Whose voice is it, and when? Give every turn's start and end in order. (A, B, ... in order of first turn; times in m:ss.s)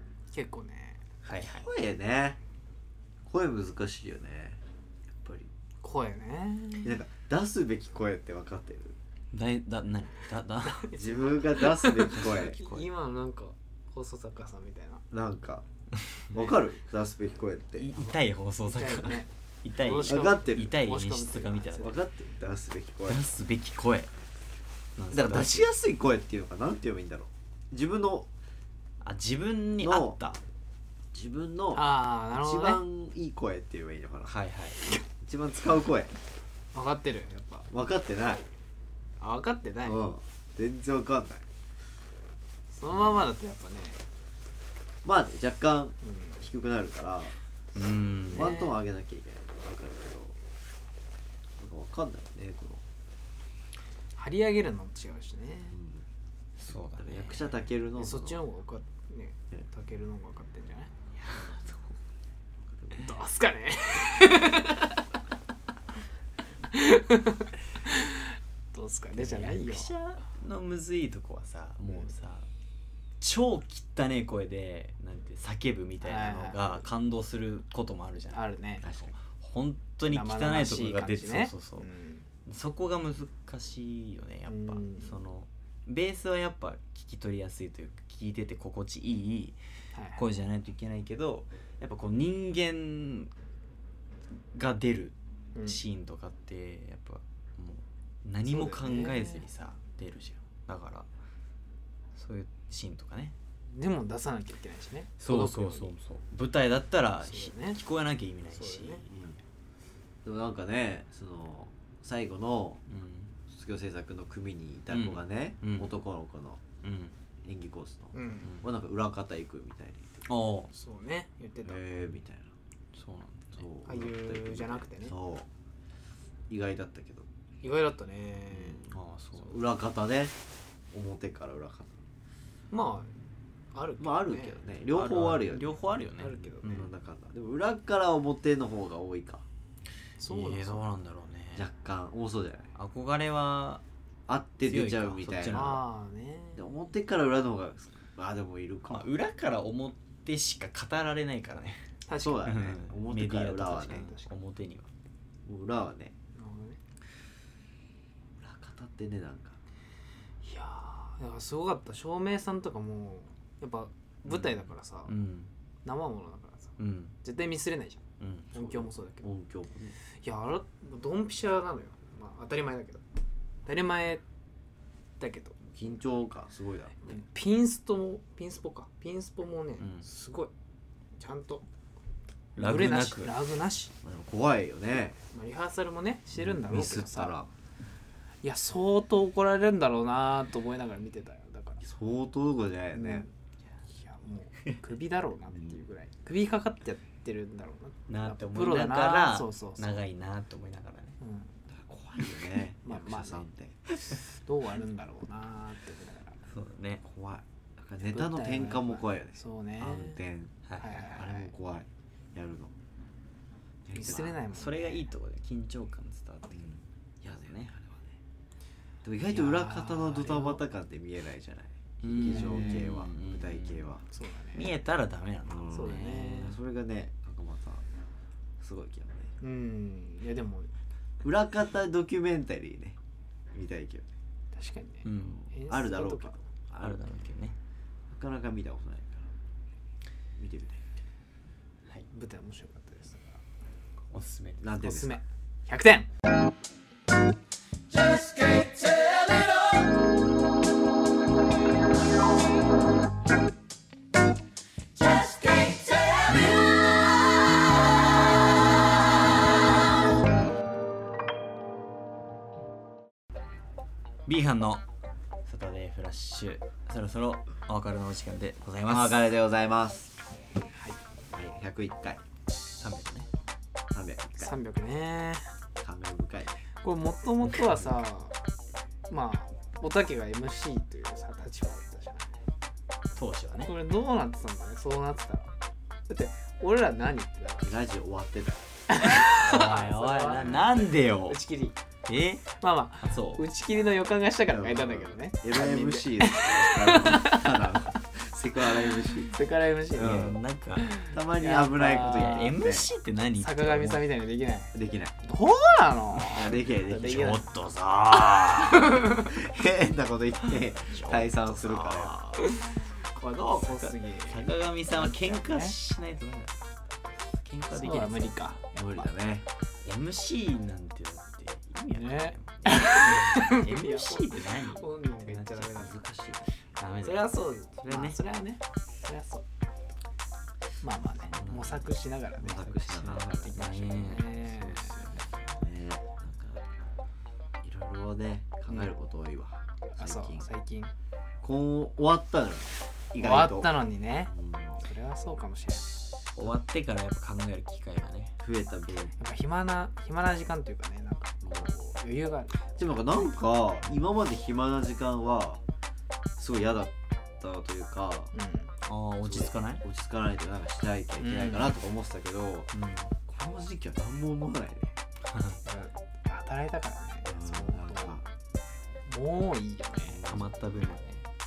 0:00.3-0:01.0 A
0:01.2-0:01.7 B
0:01.4-0:02.4 C
0:03.2-0:04.6 C
0:05.2-0:05.5 C
0:05.8-0:07.0 A
0:06.8-0:09.0 C
0:09.3-0:10.9 B
0:10.6-0:15.0 A
0:10.9-0:12.6 C
0:12.3-0:12.9 B
0:15.1-0:15.6 C
0:16.3-0:17.9 C
0:17.8-0:21.9 B
0:18.0-0:22.0 A
0:20.0-0:20.7 C
0:21.8-0:23.2 C
0:23.1-0:24.1 B
0:25.0-0:25.7 B
0:25.1-0:28.3 C
0:29.0-0:30.4 B
0:29.8-0:30.2 C
0:31.1-0:34.4 C
0:31.7-0:32.8 A
0:34.3-0:34.8 B
0:35.2-0:36.1 C
0:36.7-0:37.7 A
0:37.7-0:38.4 C
0:39.2-0:40.1 A
0:39.8-0:41.4 C
0:42.7-0:44.0 A
0:45.0-0:47.4 C
0:46.0-0:46.4 A
0:47.7-0:48.6 B
0:48.3-0:50.4 C
0:48.3-0:48.8 A
0:51.6-0:52.8 C
0:54.2-0:55.8 A
0:55.7-0:56.0 C
0:56.6-0:57.6 B
0:57.0-0:58.4 C
0:58.0-1:00.9 A
1:01.2-1:01.9 B
1:02.9-1:05.0 A
1:06.7-1:09.9 A
1:09.2-1:12.5 B
1:13.2-1:21.9 B
1:16.0-1:16.8 A
1:18.3-1:18.8 A
1:18.8-1:19.1 C
1:20.1-1:22.3 A
1:22.4-1:29.6 B
1:24.5-1:25.1 A
1:29.9-1:30.2 A
1:30.2-1:33.3 B
1:34.5-1:41.1 B
1:35.6-1:35.8 A
1:38.4-1:39.4 A
1:42.1-1:43.4 B
1:43.7-1:45.9 A
1:45.2-1:49.1 B
1:47.2-1:47.8 A
1:48.5-1:49.0 A
1:49.1-1:49.4 C
1:50.2-1:52.8 C
1:52.9-1:53.4 B
1:53.5-1:56.6 C
1:54.9-1:56.0 B
1:56.8-1:57.1 B
1:57.4-2:00.3 C
1:58.1-1:58.6 A
2:00.3-2:00.7 B
2:00.7-2:01.8 A
2:01.6-2:02.5 C
2:02.9-2:03.6 B
2:03.6-2:05.5 C
2:03.8-2:05.1 A
2:06.5-2:07.3 C
2:07.6-2:08.8 A
2:08.5-2:10.3 C
2:08.9-2:09.6 B
2:10.9-2:12.0 C
2:12.7-2:13.1 A
2:13.7-2:14.6 A
2:14.0-2:15.8 C
2:14.9-2:16.9 B
2:16.2-2:16.8 A
2:16.6-2:19.4 C
2:20.2-2:20.9 A
2:20.3-2:21.7 B
2:21.6-2:22.7 C
2:22.7-2:23.8 B
2:24.3-2:25.8 C
2:24.7-2:25.8 B
2:25.5-2:26.6 A
2:26.6-2:29.1 C
2:28.9-2:31.9 B
2:32.1-2:32.6 A
2:32.2-2:34.1 C
2:32.4-2:34.9 B
2:33.9-2:34.3 A
2:35.4-2:36.1 C
2:36.3-2:36.8 A
2:38.4-2:39.6 C
2:40.4-2:45.1 A
2:44.3-2:45.5 B
2:45.8-2:46.7 A
2:46.8-2:47.2 B
2:47.2-2:49.3 A
2:48.2-2:48.5 B
2:48.6-2:50.0 C
2:50.2-2:53.0 A
2:53.7-2:54.2 A
2:55.2-2:55.6 A
2:55.7-2:57.0 C
2:57.0-3:00.5 A
3:01.2-3:01.6 A
3:02.6-3:03.4 B
3:02.6-3:03.9 A
3:04.0-3:05.2 C
3:05.3-3:07.4 A
3:06.4-3:07.5 C
3:08.4-3:11.8 A
3:11.8-3:13.3 C
3:12.9-3:13.3 A
3:13.9-3:20.0 A
3:18.1-3:21.2 B
3:21.2-3:21.6 A
3:21.7-3:23.8 C
3:22.8-3:23.4 A
3:24.1-3:26.4 A
3:26.4-3:27.0 B
3:27.0-3:32.7 C
3:28.0-3:30.2 A
3:30.8-3:31.5 A
3:33.9-3:34.4 C
3:33.9-3:35.1 A
3:34.4-3:37.7 B
3:37.4-3:38.2 C
3:39.0-3:44.0 C
3:39.3-3:40.6 A
3:42.0-3:44.0 B
3:42.2-3:42.9 A
3:44.1-3:44.7 A
3:44.6-3:46.6 B
3:45.5-3:47.8 C
3:45.7-3:46.5 A
3:48.6-3:49.3 C
3:49.4-3:50.7 A
3:51.2-3:53.0 C
3:53.5-3:54.1 C
3:54.5-3:56.4 A
3:55.0-3:55.5 B
3:55.6-3:57.2 C
3:56.8-3:57.6 B
3:58.1-3:59.3 C
4:00.4-4:01.0 C
4:02.1-4:03.4 A
4:04.1-4:04.7 B
4:04.6-4:05.2 C
4:04.8-4:06.1 A
4:24.3-4:24.8 B
4:25.4-4:29.2 B
4:28.9-4:30.1 C
4:30.7-4:31.0 A
4:31.3-4:32.2 C
4:32.8-4:33.3 B
4:33.9-4:34.5 C
4:34.4-4:35.5 A
4:35.8-4:36.6 C
4:36.8-4:38.4 A
4:39.1-4:42.4 A
4:43.1-4:43.7 B
4:43.6-4:45.5 A
4:46.1-4:47.7 A
4:47.6-4:48.7 C
4:48.9-4:51.8 A
4:49.2-4:51.4 B
4:50.4-4:50.6 C
4:52.1-4:52.4 B
4:52.5-4:57.9 A
4:53.0-4:53.4 B
4:54.5-4:59.4 C
4:58.9-5:02.6 A
5:00.0-5:00.4 C
5:00.0-5:01.0 B
5:01.1-5:02.9 C
5:01.8-5:04.1 B
5:03.4-5:07.4 A
5:04.7-5:05.2 C
5:06.3-5:07.4 C
5:06.5-5:09.1 B
5:08.8-5:09.2 A
5:09.1-5:12.2 C
5:10.9-5:12.6 B
5:12.4-5:15.7 A
5:13.6-5:16.7 B
5:17.4-5:18.6 B
5:17.7-5:18.6 A
5:18.7-5:19.4 C
5:19.8-5:25.9 B
5:22.0-5:26.0 A
5:25.7-5:26.5 C
5:26.8-5:28.2 B
5:27.0-5:29.4 A
5:30.8-5:32.6 A
5:31.3-5:31.9 B
5:32.4-5:33.8 C
5:32.6-5:35.4 B
5:33.5-5:35.3 A
5:35.5-5:36.6 C
5:37.6-5:40.5 C
5:39.9-5:40.9 A
5:41.4-5:43.7 C
5:43.2-5:46.1 A
5:44.3-5:44.8 C
5:46.4-5:48.3 B
5:48.4-5:49.2 C
5:49.2-5:53.3 A
5:52.8-5:55.6 C
5:56.4-5:58.3 C
5:58.3-5:58.7 A
5:58.8-5:59.8 B
5:59.2-6:02.7 C
6:01.2-6:01.8 A
6:02.7-6:03.1 B
6:03.3-6:05.0 C
6:05.3-6:05.6 B
6:05.6-6:08.2 A
6:07.3-6:08.3 C
6:09.1-6:10.3 A
6:10.0-6:10.5 C
6:10.2-6:11.2 B